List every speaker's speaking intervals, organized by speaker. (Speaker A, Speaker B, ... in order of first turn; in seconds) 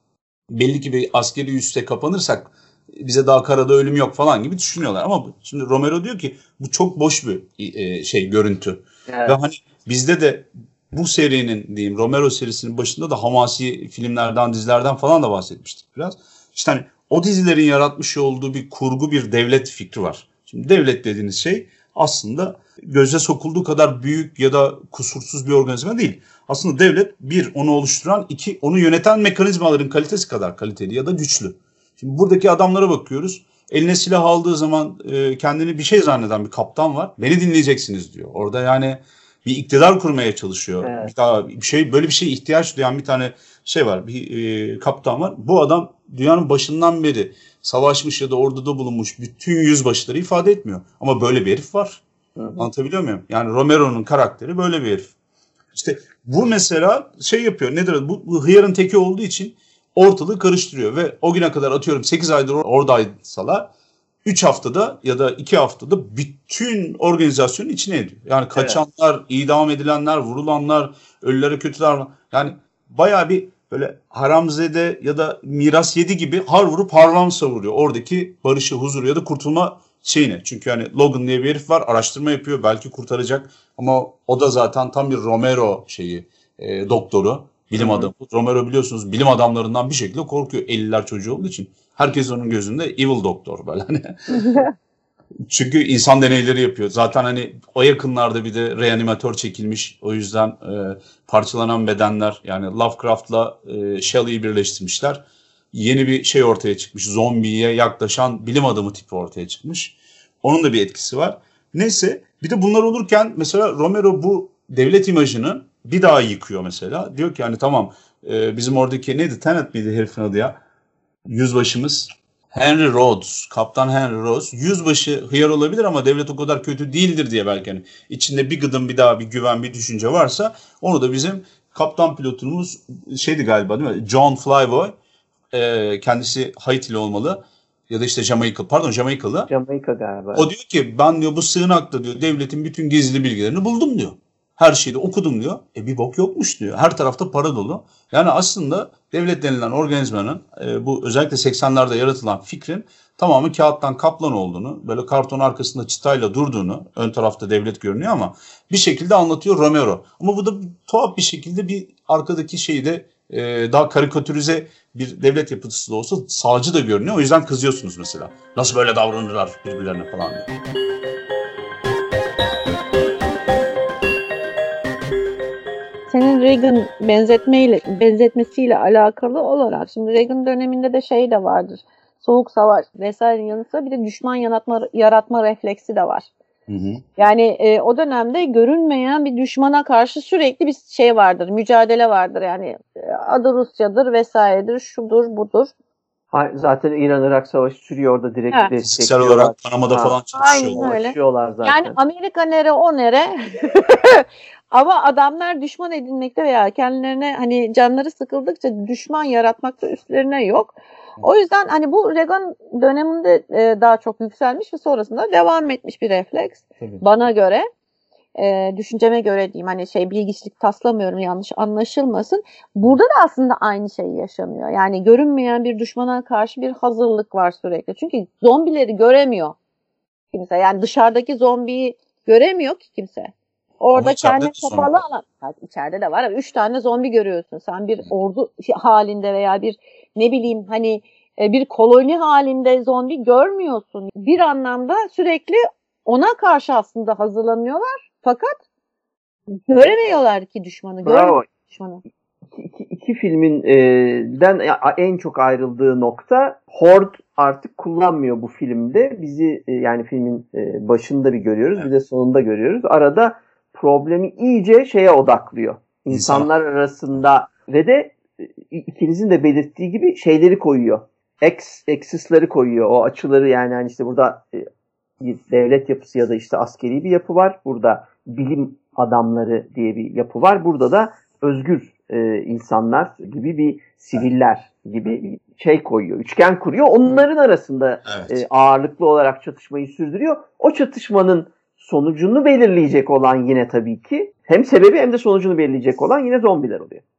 Speaker A: 0.5-52.0, 52.6-55.1, 55.7-63.7, 64.2-94.4, 95.5-120.6, 121.3-134.9, 135.5-139.5, 140.3-170.5, 186.7-187.0, 198.8-200.9, 233.9-235.0, 266.1-266.5, 288.1-288.4
Speaker B: 9.1-9.4, 40.8-41.1, 52.4-52.7, 68.5-68.8, 87.8-88.1, 139.5-140.5, 196.3-200.2, 200.7-201.9, 251.0-251.4, 252.5-274.6, 275.2-297.0
Speaker C: 94.3-94.7, 176.1-186.3, 187.2-195.7, 200.3-217.7, 218.3-229.6, 230.3-248.6, 249.7-252.0